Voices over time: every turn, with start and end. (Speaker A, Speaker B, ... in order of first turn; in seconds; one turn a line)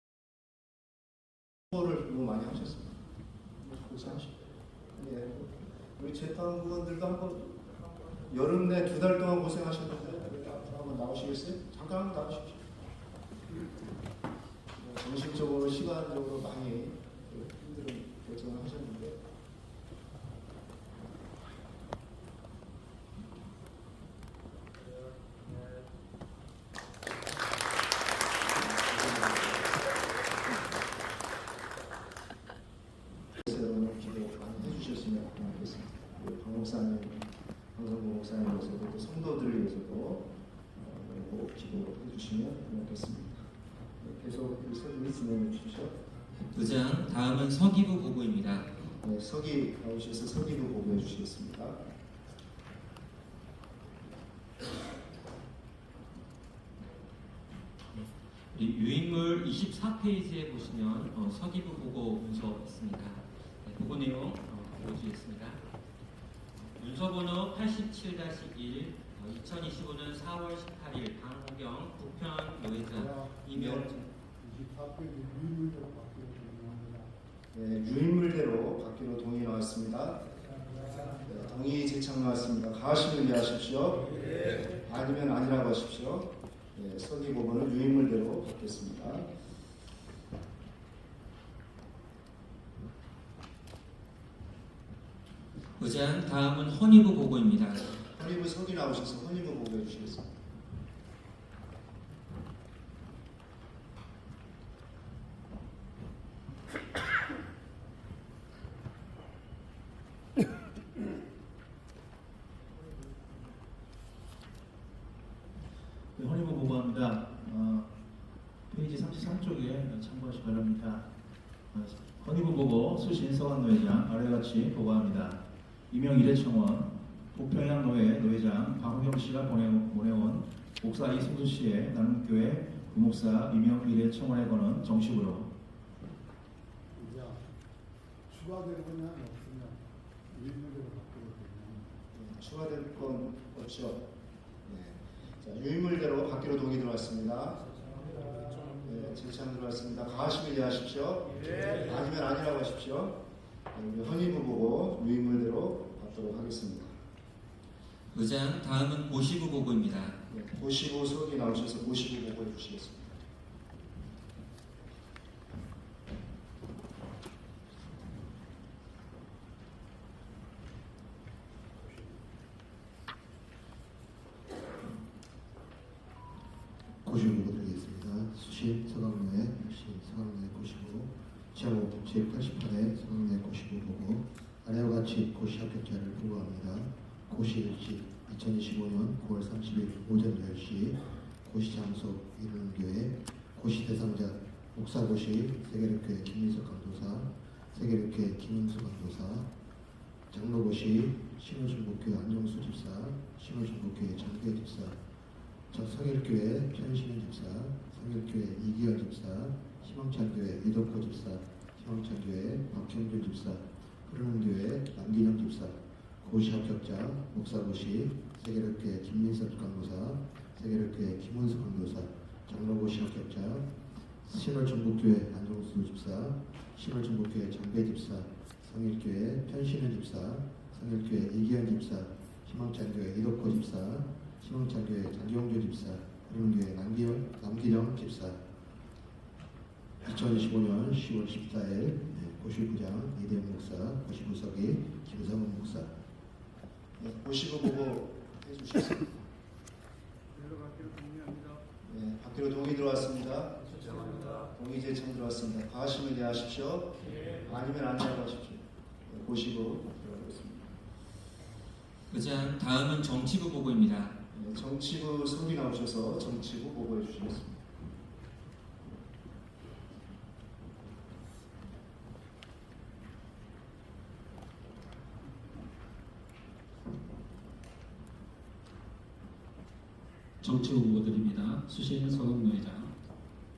Speaker A: 1.7-3.0
Speaker A: 3.6-4.3
Speaker A: 5.0-7.6
Speaker A: 8.3-12.7
Speaker A: 14.8-19.2
Speaker A: 28.6-29.7
Speaker A: 33.4-43.5
Speaker A: 44.0-46.0
Speaker B: 46.5-48.7
Speaker A: 49.0-51.8
Speaker B: 57.9-65.6
Speaker B: 66.7-73.9
Speaker C: 72.9-73.3
Speaker A: 73.5-74.1
Speaker C: 74.4-77.2
Speaker A: 77.5-80.2
Speaker A: 81.2-84.1
Speaker A: 84.8-89.3
Speaker B: 95.8-98.0
Speaker A: 98.1-100.3
Speaker D: 116.2-117.9
Speaker D: 118.7-121.1
Speaker D: 121.7-135.5
Speaker C: 136.9-137.4
Speaker C: 138.3-142.0
Speaker A: 142.1-144.1
Speaker A: 144.7-147.6
Speaker A: 148.8-153.2
Speaker A: 153.7-156.9
Speaker B: 158.1-160.2
Speaker A: 160.3-163.1
Speaker E: 177.0-199.5
Speaker E: 200.3-205.0
Speaker E: 205.7-223.7
Speaker E: 224.2-238.4
Speaker E: 240.0-245.9
Speaker A: 247.0-249.3
Speaker C: 250.7-251.1
Speaker A: 251.8-260.8
Speaker B: 262.1-264.2
Speaker A: 264.3-267.6
Speaker F: 280.4-282.9